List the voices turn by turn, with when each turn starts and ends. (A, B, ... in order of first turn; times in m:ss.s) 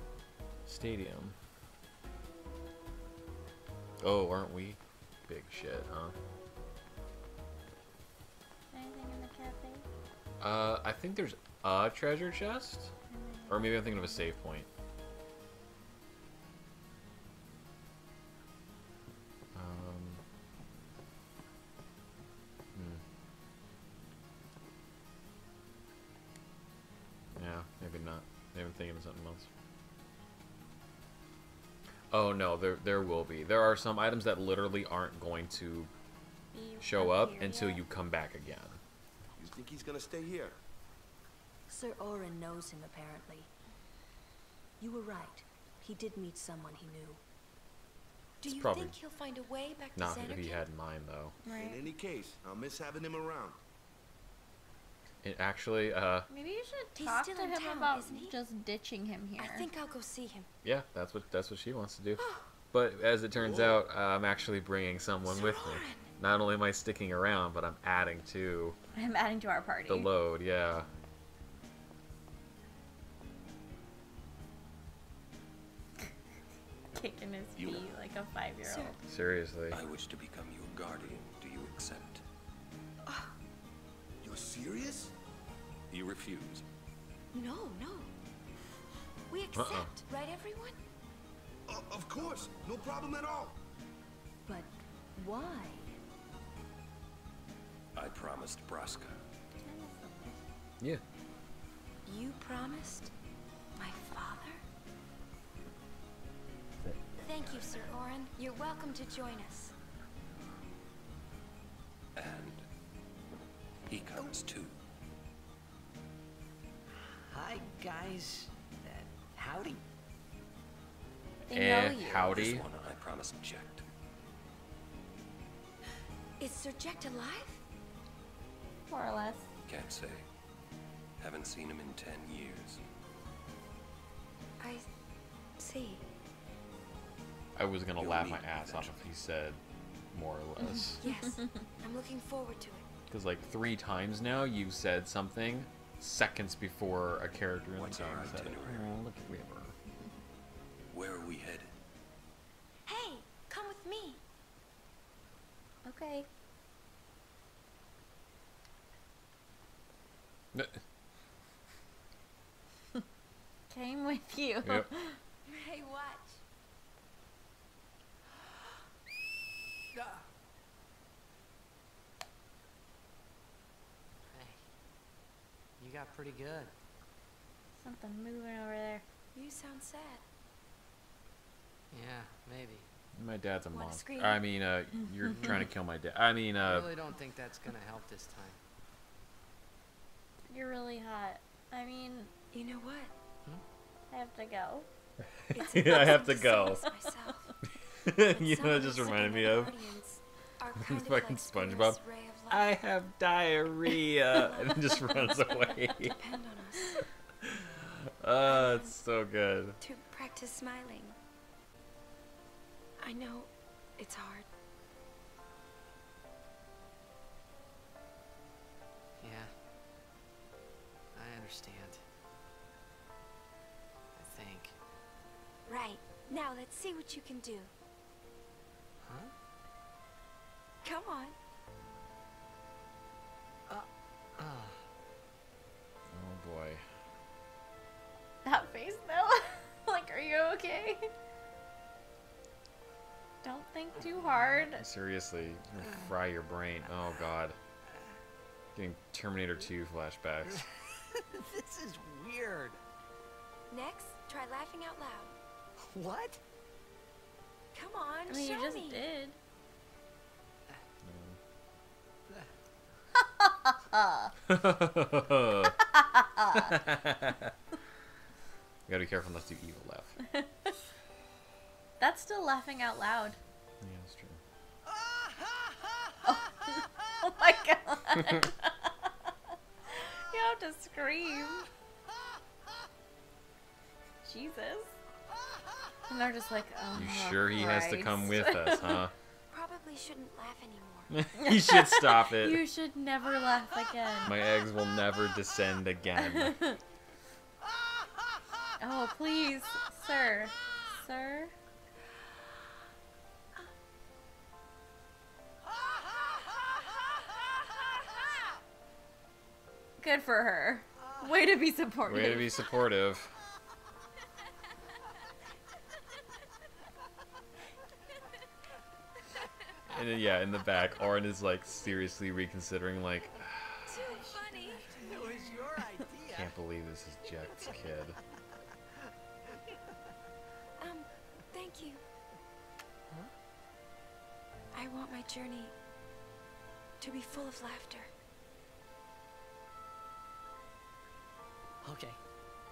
0:00.7-0:01.4 A
0:04.0-0:06.2 A
0:08.7-0:09.8 B
0:10.4-0:12.9 A
0:13.1-0:14.3 B
0:13.5-0:14.7 A
0:19.6-0:20.2 A
0:22.8-0:23.0 A
0:27.4-0:29.5 A
0:32.1-0:35.9 A
0:36.5-0:37.8 B
0:36.8-0:38.8 A
0:39.4-0:40.6 C
0:41.7-0:43.5 D
0:44.8-0:47.2 D
0:48.4-0:50.7 E
0:48.4-0:49.0 A
0:50.0-0:51.4 A
0:51.4-0:51.8 B
0:51.5-0:53.6 C
0:55.2-0:56.3 A
0:56.3-0:59.7 B
0:57.0-0:58.4 E
0:59.4-1:00.5 E
1:00.6-1:08.8 A
1:02.2-1:02.5 E
1:03.4-1:03.8 C
1:05.2-1:06.1 E
1:09.0-1:10.1 B
1:09.9-1:10.9 A
1:16.9-1:19.0 B
1:17.6-1:17.9 F
1:18.6-1:19.0 E
1:19.1-1:19.8 A
1:19.7-1:22.2 F
1:23.1-1:23.4 E
1:24.2-1:25.1 C
1:25.9-1:26.6 F
1:27.3-1:28.1 E
1:29.3-1:30.8 E
1:29.6-1:29.9 A
1:31.7-1:33.6 C
1:34.5-1:36.0 D
1:38.0-1:39.2 F
1:39.6-1:40.4 B
1:42.1-1:43.1 E
1:43.8-1:44.6 E
1:47.2-1:49.8 E
1:52.2-1:52.6 F
1:53.9-1:54.7 F
1:57.1-1:59.8 G
2:01.5-2:02.6 A
2:01.5-2:02.3 B
2:02.0-2:03.8 F
2:06.4-2:07.6 E
2:08.9-2:09.5 B
2:09.7-2:10.2 F
2:11.2-2:12.8 F
2:14.6-2:14.9 E
2:15.6-2:16.0 E
2:17.6-2:19.6 A
2:18.0-2:19.0 F
2:20.1-2:21.0 A
2:20.6-2:21.2 B
2:21.0-2:22.9 E
2:23.1-2:29.8 A
2:27.8-2:28.9 F
2:30.9-2:31.7 F
2:32.9-2:34.2 E
2:35.8-2:36.3 B
2:40.5-2:40.8 A
2:43.7-2:45.2 B
2:45.5-2:46.4 E
2:49.9-2:50.2 G
2:54.3-2:54.6 G
2:55.8-2:56.7 G
2:57.8-2:59.0 B
2:59.3-3:00.2 E
3:01.9-3:02.9 G
3:03.2-3:07.0 A
3:03.7-3:04.4 E
3:05.3-3:05.7 G
3:06.6-3:08.6 G
3:10.5-3:12.3 B
3:12.5-3:13.1 E
3:14.1-3:14.9 B
3:15.4-3:16.8 A
3:15.5-3:17.5 E
3:18.0-3:19.8 A
3:18.3-3:22.8 E
3:20.8-3:26.2 A
3:24.2-3:27.0 E
3:27.4-3:29.8 A
3:28.4-3:29.0 E
3:29.8-3:31.2 E
3:33.0-3:34.5 E
3:39.2-3:39.5 G
3:41.1-3:42.0 G
3:44.2-3:44.8 G
3:45.7-3:47.7 E
3:49.0-3:49.3 G
3:50.8-3:51.4 E
3:53.7-3:54.8 G
3:56.1-3:56.8 A
3:58.4-4:01.1 B
4:03.4-4:04.8 B
4:04.8-4:07.6 A
4:08.8-4:10.6 A
4:10.5-4:12.8 G
4:13.7-4:15.3 E
4:15.8-4:16.4 G
4:17.7-4:19.0 E
4:18.3-4:19.4 B
4:21.0-4:21.4 A
4:23.2-4:24.3 B
4:24.5-4:25.8 A
4:25.8-4:26.8 B
4:26.5-4:27.5 A
4:28.9-4:30.2 A
4:30.3-4:30.7 B
4:32.0-4:33.4 B
4:33.8-4:34.4 A
4:36.2-4:39.3 B
4:38.2-4:38.4 A
4:39.9-4:41.7 B
4:44.2-4:45.0 B
4:46.1-4:49.0 B
4:46.9-4:49.1 A
4:49.5-4:51.2 E
4:51.1-4:52.6 A
4:51.3-4:54.4 B
4:54.2-4:56.6 A
4:56.2-4:56.8 B
4:58.8-5:01.5 B
5:10.0-5:12.5 B
5:12.1-5:13.4 A
5:19.9-5:24.0 A
5:23.9-5:25.7 E
5:24.9-5:26.5 G
5:26.3-5:28.2 A
5:27.5-5:27.8 G
5:30.8-5:32.0 E
5:34.7-5:35.8 E
5:37.0-5:38.1 E
5:41.8-5:42.2 G